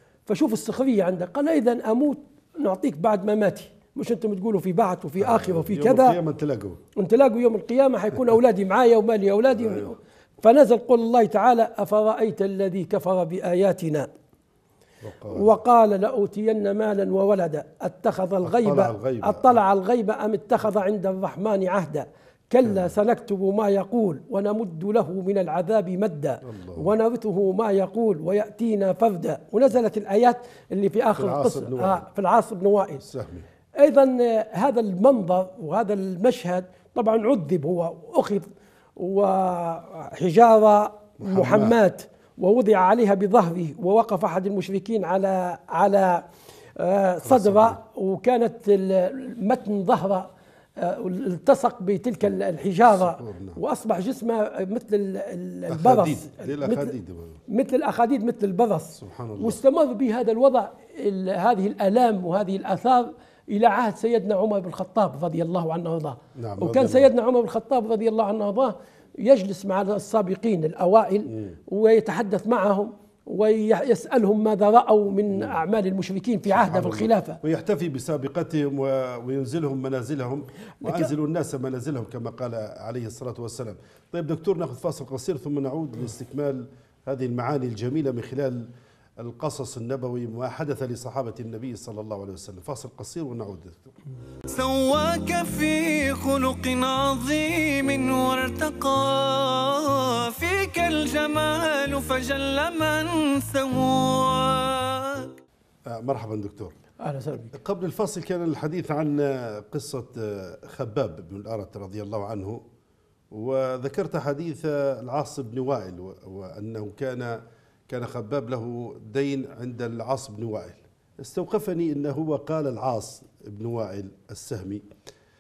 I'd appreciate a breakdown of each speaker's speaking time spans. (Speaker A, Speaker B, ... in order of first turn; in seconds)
Speaker A: 0.3-6.2, 7.0-14.1, 15.3-33.0, 33.8-56.9, 57.5-77.4, 80.8-81.1, 107.0-107.5
Speaker B: 5.2-6.8, 9.5-9.9, 15.0-15.5, 18.4-19.6, 22.6-22.9, 26.4-26.9, 31.1-32.0, 33.0-33.5, 41.2-41.8, 47.2-47.8, 53.0-53.6, 55.7-57.4, 59.0-59.6, 66.3-67.1, 71.3-71.5, 75.3-75.6, 76.5-88.7, 89.2-93.9, 105.9-106.7, 107.5-112.6, 113.3-124.8
Speaker C: 94.5-105.3